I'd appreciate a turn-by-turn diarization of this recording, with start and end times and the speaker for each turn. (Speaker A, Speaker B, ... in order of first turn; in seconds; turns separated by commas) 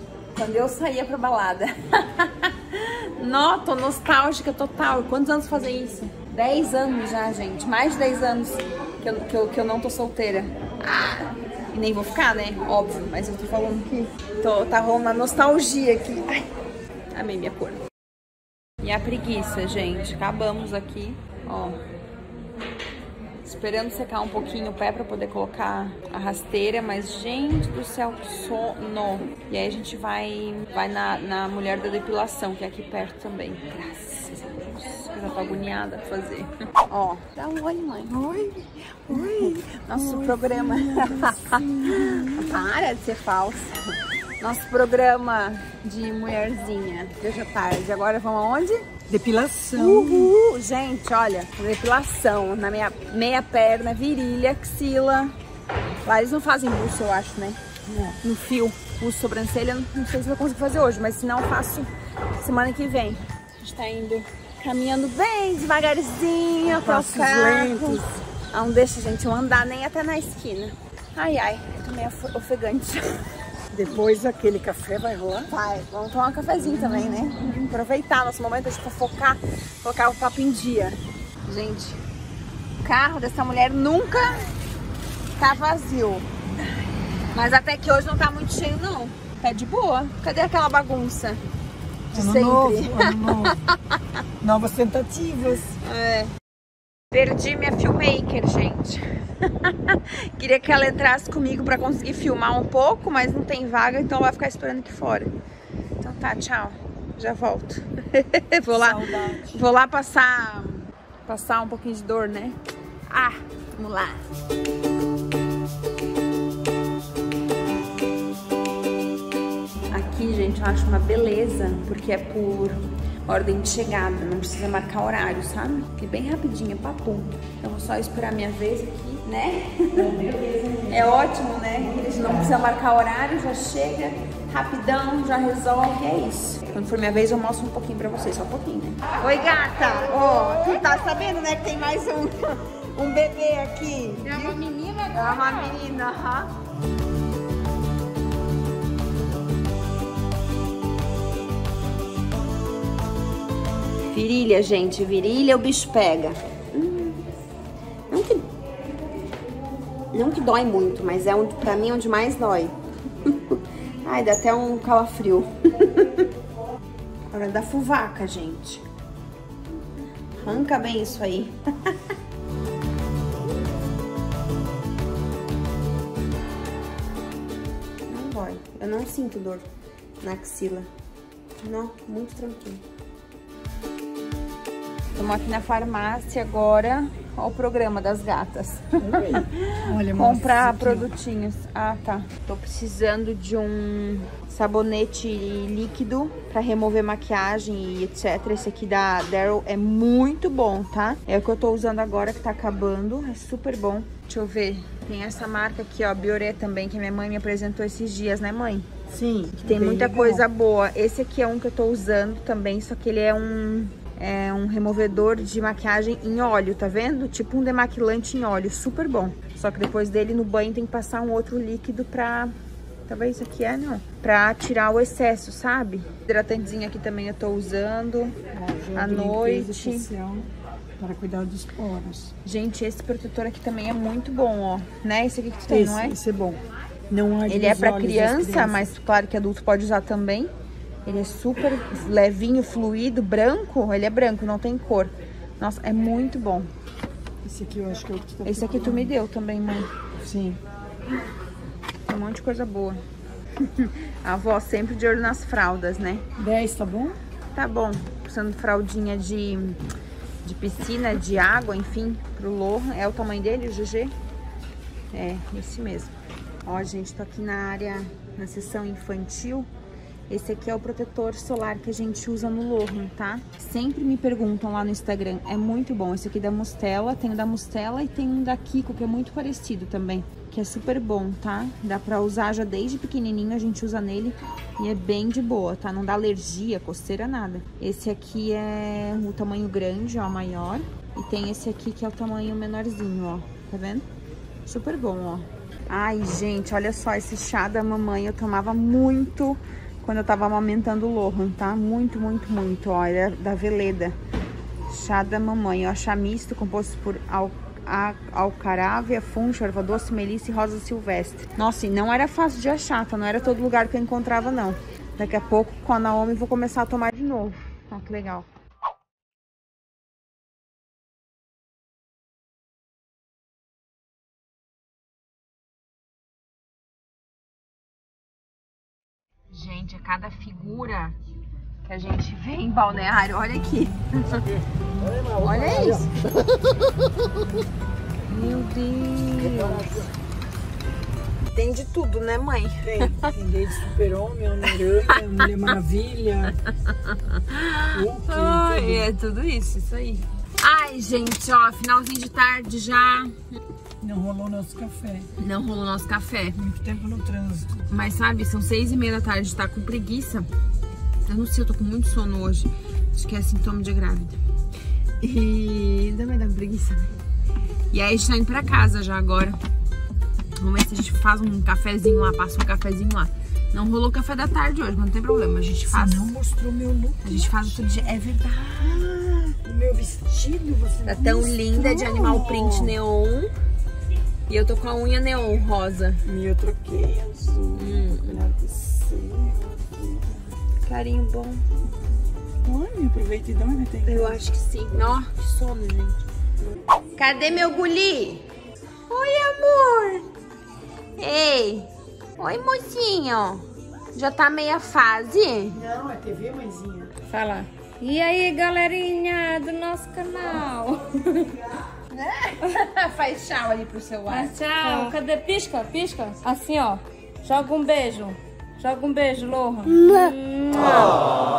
Speaker A: 0.3-16.5, Speaker A: 17.1-17.8, Speaker A: 18.8-21.8, Speaker A: 23.4-48.9, Speaker B: 39.1-42.7, Speaker B: 49.1-50.3, Speaker A: 49.7-55.4, Speaker A: 56.0-57.6, Speaker B: 57.9-58.2, Speaker A: 58.2-61.9, Speaker A: 62.4-73.2, Speaker B: 66.7-68.2, Speaker B: 73.7-75.5, Speaker A: 75.5-82.0, Speaker A: 82.8-84.4, Speaker A: 85.4-86.3, Speaker A: 87.3-91.4, Speaker A: 92.1-93.5, Speaker B: 92.1-93.6, Speaker B: 94.4-95.7, Speaker A: 95.7-96.3, Speaker A: 97.1-105.3, Speaker A: 106.0-109.0, Speaker B: 108.7-109.6, Speaker A: 109.5-112.6, Speaker A: 113.1-114.2, Speaker A: 119.9-130.1, Speaker B: 129.9-131.2, Speaker A: 130.9-144.6, Speaker B: 131.7-132.6, Speaker C: 140.3-140.7, Speaker C: 144.2-145.8, Speaker A: 145.1-146.5, Speaker A: 154.1-157.2, Speaker A: 158.1-158.5, Speaker A: 160.1-162.7, Speaker A: 163.2-166.3, Speaker A: 167.3-168.8, Speaker A: 170.4-171.9, Speaker A: 178.1-179.7, Speaker A: 180.2-180.9, Speaker A: 181.6-182.8, Speaker A: 185.2-208.9, Speaker B: 189.0-191.1, Speaker B: 209.1-210.4, Speaker A: 209.6-222.5, Speaker A: 223.1-228.4, Speaker B: 228.5-230.5, Speaker A: 228.9-230.1, Speaker B: 231.0-232.3, Speaker A: 232.4-236.2, Speaker B: 235.7-238.9, Speaker A: 237.5-240.5, Speaker A: 241.1-246.7, Speaker B: 247.4-249.1, Speaker A: 248.4-249.9, Speaker B: 250.2-250.6, Speaker A: 252.1-253.0, Speaker A: 253.6-256.2, Speaker B: 256.4-257.2, Speaker A: 257.6-259.8, Speaker A: 260.4-264.1, Speaker A: 265.1-269.7, Speaker A: 270.3-294.1, Speaker A: 294.7-304.2, Speaker A: 304.9-318.5, Speaker A: 329.5-331.2, Speaker A: 331.9-334.4, Speaker B: 335.2-335.5, Speaker A: 335.4-336.1, Speaker A: 338.3-339.9, Speaker A: 341.5-343.3, Speaker B: 342.8-346.6, Speaker A: 346.9-353.4, Speaker B: 347.9-349.1, Speaker B: 354.0-355.3, Speaker A: 355.4-356.6, Speaker B: 356.6-357.9, Speaker A: 357.9-360.5, Speaker A: 361.2-364.4, Speaker A: 365.2-367.1, Speaker A: 367.9-369.6, Speaker A: 370.6-376.3, Speaker B: 375.9-378.1, Speaker A: 377.2-379.1, Speaker B: 378.8-382.9, Speaker A: 381.1-383.5, Speaker A: 384.5-386.2, Speaker B: 386.2-390.5, Speaker A: 387.7-388.4, Speaker A: 390.8-391.6, Speaker B: 392.6-394.4, Speaker A: 394.1-396.2, Speaker A: 397.2-398.4, Speaker A: 399.1-400.3, Speaker A: 401.2-405.8, Speaker B: 405.7-407.1, Speaker C: 407.3-411.6, Speaker A: 412.1-415.2, Speaker C: 414.3-421.4, Speaker A: 419.9-420.4